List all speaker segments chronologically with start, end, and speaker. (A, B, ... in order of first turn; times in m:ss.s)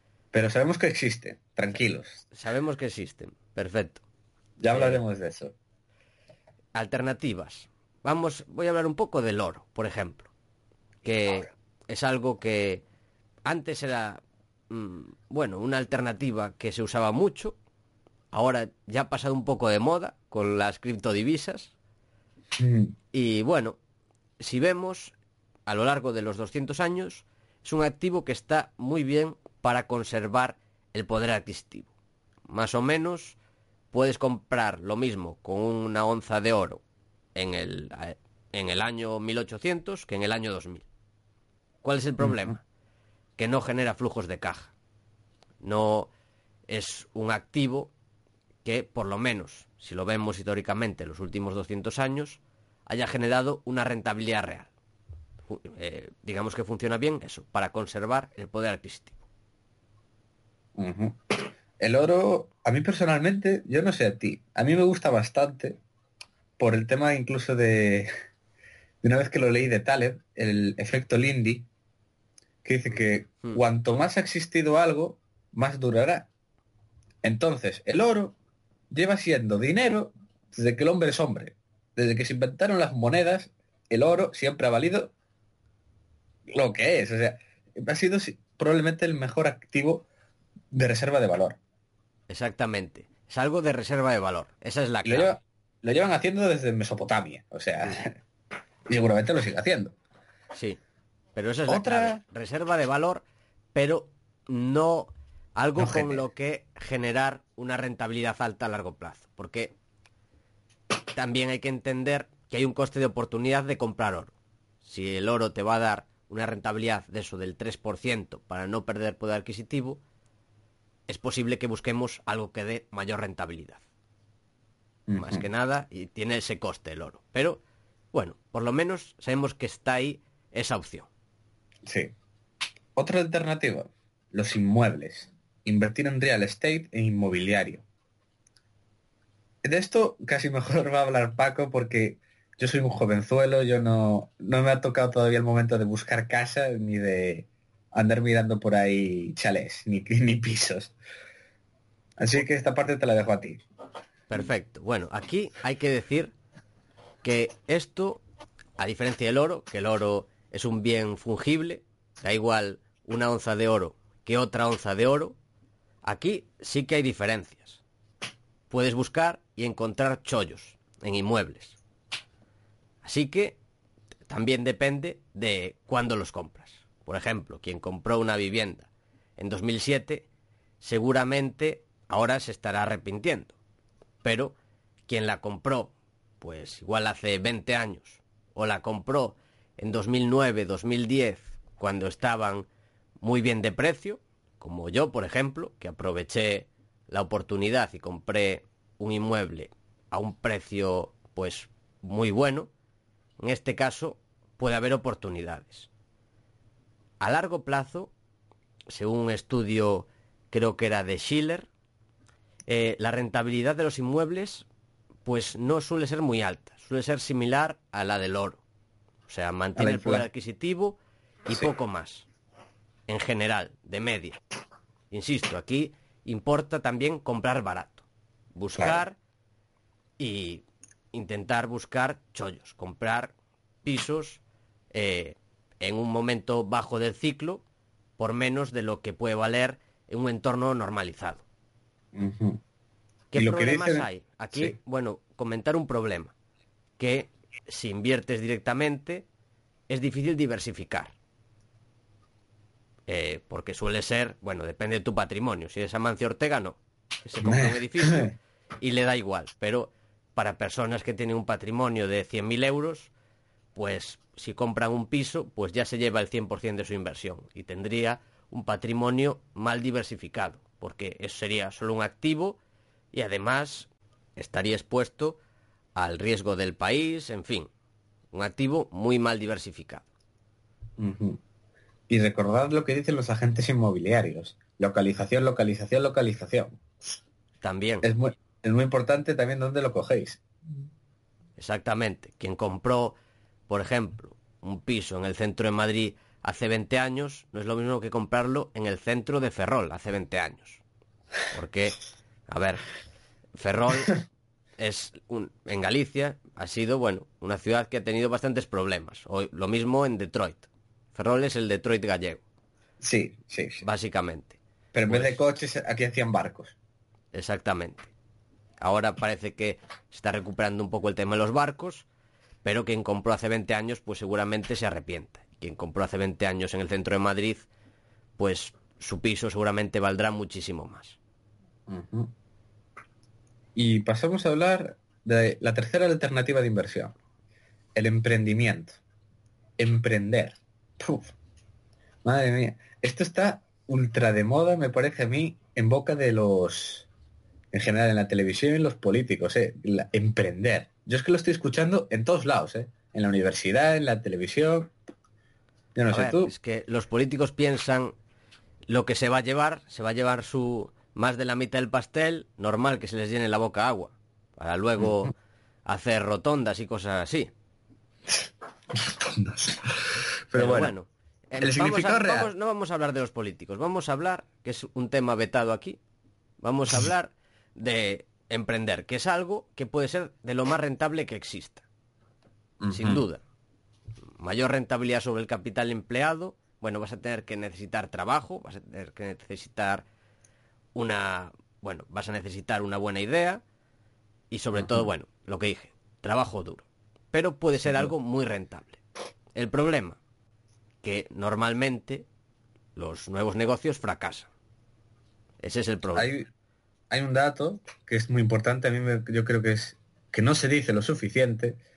0:00.3-0:02.2 A
0:02.3-0:04.0 B
0:04.6-0:05.5 A
0:04.7-0:05.0 B
0:06.7-0:10.3 B
0:11.0-0:12.8 B
0:13.4-0:17.6 B
0:18.3-0:21.7 B
0:22.6-0:22.9 A
0:23.1-0:23.8 B
0:24.4-0:25.1 B
0:25.7-0:31.9 B
0:32.5-0:33.4 B
0:33.9-0:36.8 B
0:37.3-0:40.8 B
0:41.8-0:42.6 B
0:42.2-0:42.4 A
0:43.4-0:44.7 B
0:45.6-0:46.1 B
0:46.7-0:47.9 B
0:48.6-0:54.7 B
0:55.5-0:59.2 B
1:00.8-1:05.8 A
1:06.6-1:08.1 A
1:09.0-1:11.7 A
1:12.6-1:16.3 A
1:17.2-1:18.3 A
1:18.9-1:25.1 A
1:26.5-1:30.1 A
1:30.7-1:31.6 A
1:32.3-1:35.4 B
1:35.0-1:38.1 A
1:38.9-1:40.0 A
1:40.5-1:40.8 B
1:41.3-1:43.2 B
1:41.7-1:42.2 A
1:43.7-1:49.7 B
1:45.8-1:46.2 A
1:51.1-1:54.3 B
1:54.8-2:00.0 B
2:01.1-2:03.8 B
2:05.1-2:05.4 A
2:05.2-2:07.6 B
2:08.1-2:11.1 B
2:11.8-2:12.1 A
2:13.0-2:17.8 A
2:19.6-2:30.9 A
2:32.2-2:33.6 A
2:34.3-2:36.3 B
2:37.2-2:38.2 B
2:38.8-2:45.4 B
2:46.0-2:47.8 B
2:48.7-2:51.8 B
2:53.0-2:53.6 B
2:54.3-3:00.3 B
3:00.8-3:03.5 B
3:04.2-3:04.5 B
3:05.1-3:12.7 B
3:13.2-3:22.7 B
3:23.4-3:25.9 B
3:27.2-3:28.1 B
3:28.9-3:31.7 B
3:32.7-3:34.6 B
3:35.2-3:38.6 B
3:39.3-3:42.3 B
3:39.8-3:40.2 A
3:43.1-3:44.4 B
3:45.1-3:49.2 B
3:50.2-3:53.3 B
3:53.8-3:54.4 B
3:54.9-3:57.6 B
3:58.2-4:01.4 B
4:02.1-4:02.6 A
4:03.3-4:06.3 B
4:03.3-4:04.8 A
4:07.0-4:09.2 B
4:09.9-4:11.1 B
4:13.1-4:23.1 B
4:17.4-4:18.3 A
4:23.7-4:32.6 B
4:33.1-4:35.4 B
4:35.9-4:37.7 B
4:38.3-4:40.1 B
4:41.0-4:41.4 A
4:42.1-4:46.8 A
4:47.6-4:48.1 B
4:48.0-4:50.4 A
4:51.6-4:53.2 B
4:53.7-5:00.8 B
5:01.5-5:02.8 B
5:03.6-5:04.2 B
5:04.8-5:12.4 B
5:13.0-5:13.8 A
5:13.8-5:15.4 B
5:14.9-5:16.8 A
5:17.3-5:18.1 B
5:18.8-5:22.0 B
5:22.6-5:27.7 B
5:28.4-5:31.2 B
5:31.9-5:32.3 A
5:33.8-5:37.1 A
5:37.9-5:39.0 A
5:39.8-5:41.3 A
5:42.2-5:47.1 A
5:47.7-5:54.9 A
5:55.9-5:56.5 A
5:56.1-5:58.1 B
5:58.9-6:05.3 B
6:05.8-6:07.5 B
6:08.9-6:10.9 A
6:10.5-6:16.0 B
6:11.6-6:12.5 A
6:16.6-6:21.8 B
6:22.8-6:23.2 A
6:22.9-6:23.4 B
6:24.4-6:30.0 B
6:30.9-6:33.6 B
6:34.5-6:39.0 B
6:34.8-6:35.0 A
6:39.5-6:40.2 B
6:41.0-6:42.2 B
6:43.0-6:44.5 B
6:45.6-6:46.3 B
6:46.1-6:46.5 A
6:47.1-6:51.8 A